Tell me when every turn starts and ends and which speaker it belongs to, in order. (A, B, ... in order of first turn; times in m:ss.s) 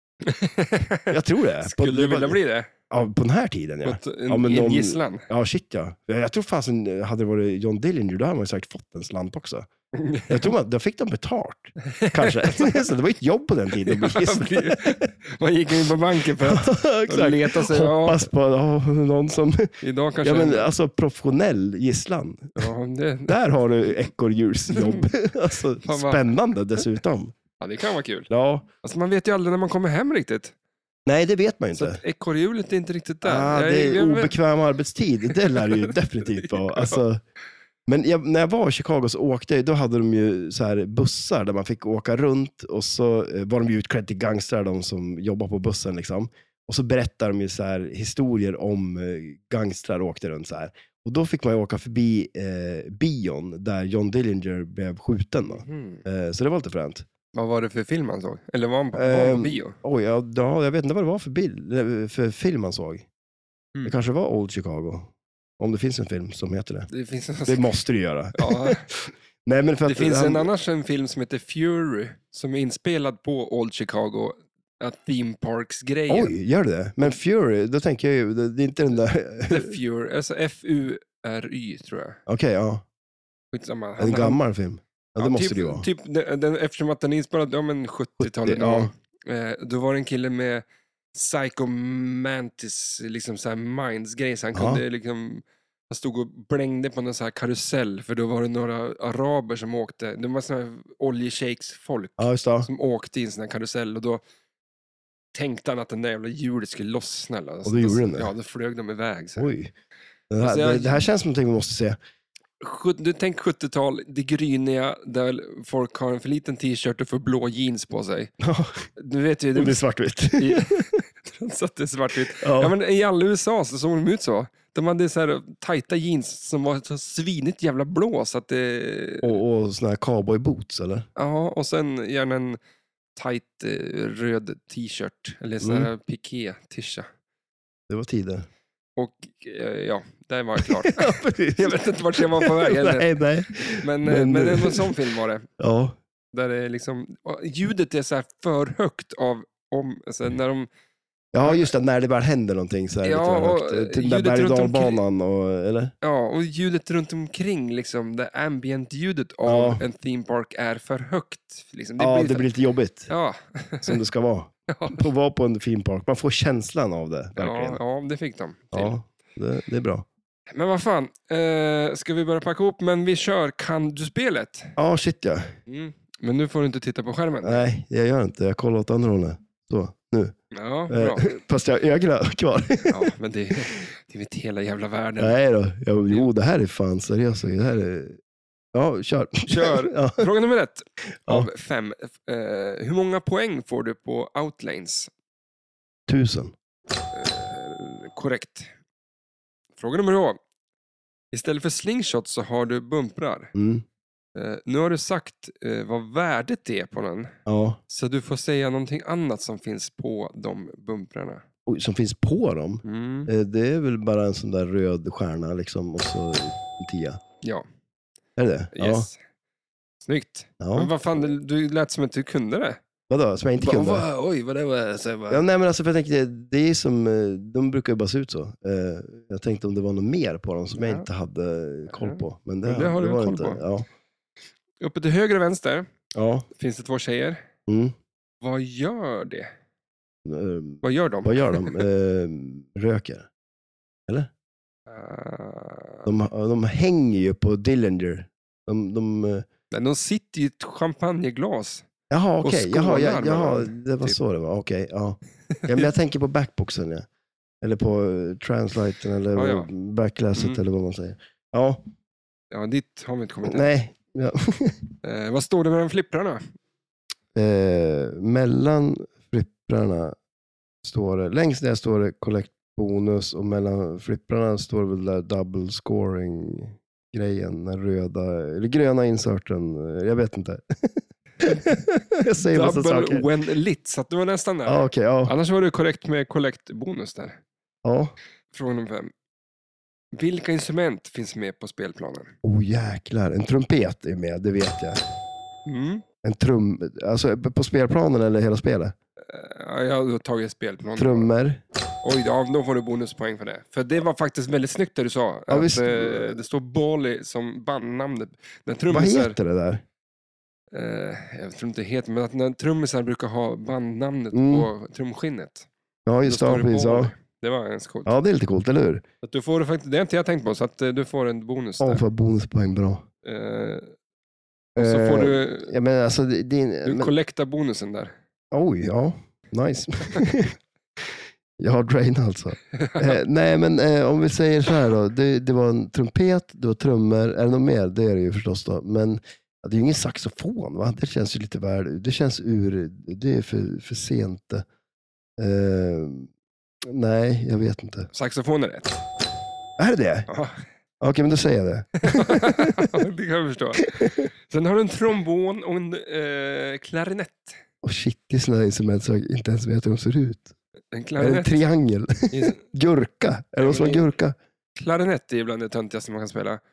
0:00.2-0:02.7 A
0:01.1-0:02.4 B
0:02.9-0:09.7 B
0:03.8-0:05.3 A
0:09.9-0:10.5 A
0:10.3-0:15.1 B
0:11.9-0:12.8 A
0:13.8-0:18.3 A
0:16.4-0:22.7 B
0:19.8-0:20.7 A
0:22.6-0:23.4 A
0:23.3-0:27.3 B
0:24.7-0:25.1 A
0:25.8-0:26.3 A
0:27.6-0:28.3 A
0:28.3-0:28.7 B
0:28.8-0:30.5 A
0:31.0-0:32.0 B
0:31.7-0:34.3 A
0:33.2-0:37.2 B
0:35.3-0:35.8 A
0:36.4-0:37.0 A
0:37.9-0:57.0 B
0:55.5-0:56.0 A
0:57.3-0:59.8 A
0:58.9-1:03.1 B
1:03.8-1:06.9 B
1:06.9-1:07.6 A
1:07.5-1:10.5 B
1:08.4-1:08.8 A
1:09.8-1:16.3 A
1:16.1-1:19.7 B
1:19.5-1:22.2 A
1:22.3-1:22.8 B
1:23.5-1:24.4 A
1:24.0-1:25.9 B
1:25.2-1:44.2 A
1:28.2-1:28.9 B
1:34.5-1:34.8 B
1:42.2-1:42.7 B
1:45.3-1:49.5 A
1:47.6-1:48.3 B
1:49.4-1:49.7 B
1:50.3-1:52.0 B
1:50.4-1:51.0 A
1:52.6-1:58.3 A
1:58.4-1:58.9 B
1:59.0-1:59.8 A
1:59.5-2:01.0 B
2:00.4-2:09.3 A
2:02.4-2:02.7 B
2:09.2-2:11.1 B
2:11.2-2:12.6 A
2:13.1-2:17.1 A
2:15.6-2:15.9 B
2:17.9-2:18.5 B
2:19.0-2:25.5 A
2:20.6-2:24.9 B
2:25.6-2:26.0 B
2:26.3-2:30.7 A
2:31.3-2:35.9 B
2:31.4-2:31.7 A
2:33.0-2:35.0 A
2:36.0-2:42.5 A
2:39.5-2:39.8 B
2:42.0-2:43.1 B
2:43.1-2:44.0 A
2:43.8-2:47.8 B
2:44.7-2:45.0 A
2:47.4-2:49.0 A
2:48.7-2:50.0 B
2:50.5-2:54.7 A
2:54.8-2:55.5 B
2:55.7-2:57.7 A
2:57.4-3:00.4 B
3:00.5-3:01.3 A
3:00.9-3:03.1 B
3:02.8-3:05.3 A
3:05.2-3:08.2 B
3:08.7-3:10.3 B
3:09.5-3:15.1 A
3:16.1-3:16.5 B
3:17.1-3:18.7 A
3:19.8-3:20.4 A
3:21.3-3:23.5 A
3:23.5-3:23.8 B
3:24.4-3:27.3 A
3:27.5-3:27.8 B
3:27.9-3:31.4 A
3:31.7-3:37.2 B
3:32.8-3:33.3 A
3:38.4-3:39.1 B
3:38.8-3:39.2 A
3:40.0-3:42.8 A
3:40.6-3:40.9 B
3:43.1-3:44.0 B
3:43.6-3:45.4 A
3:45.3-3:53.9 B
3:50.8-3:51.0 A
3:51.9-3:53.6 A
3:54.8-3:55.9 A
3:56.1-3:56.5 B
3:56.5-3:57.4 A
3:57.7-3:58.0 B
3:58.4-3:59.5 A
4:00.2-4:03.3 B
4:00.8-4:01.8 A
4:04.9-4:06.1 A
4:06.0-4:09.4 B
4:09.7-4:11.8 A
4:12.1-4:17.1 B
4:12.4-4:14.2 A
4:15.5-4:15.9 A
4:17.6-4:21.8 B
4:19.3-4:19.7 A
4:20.4-4:20.6 A
4:22.5-4:23.7 A
4:23.5-4:24.9 B
4:25.0-4:26.5 A
4:27.3-4:30.2 B
4:30.8-4:43.3 B
4:41.4-4:41.7 A
4:42.4-4:47.4 A
4:44.7-4:45.3 B
4:47.8-4:48.1 B
4:48.5-4:49.1 A
4:50.1-4:52.3 A
4:52.4-4:55.0 B
4:55.7-4:56.0 A
4:56.2-4:59.0 B
4:59.3-5:01.3 A
5:01.0-5:01.6 B
5:02.0-5:09.4 A
5:05.5-5:06.4 B
5:08.9-5:09.8 B
5:10.7-5:15.7 A
5:14.3-5:14.7 B
5:16.0-5:17.1 B
5:16.2-5:18.1 A
5:18.0-5:19.0 B
5:19.2-5:22.0 A
5:21.8-5:23.0 B
5:23.2-5:24.0 A
5:24.8-5:27.1 B
5:24.8-5:25.7 A
5:26.8-5:28.1 A
5:28.5-5:30.6 B
5:31.6-5:44.6 B
5:32.8-5:33.2 A
5:45.4-5:46.3 B
5:46.8-5:48.1 B
5:48.1-5:49.0 A
5:49.8-5:50.3 B
5:50.3-5:50.6 A
5:51.0-5:53.0 B
5:52.0-5:57.6 A
5:53.8-5:54.2 B
5:57.8-6:00.5 B
6:00.9-6:01.6 A
6:01.2-6:04.4 B
6:02.3-6:02.6 A
6:03.6-6:04.1 A
6:04.8-6:06.6 A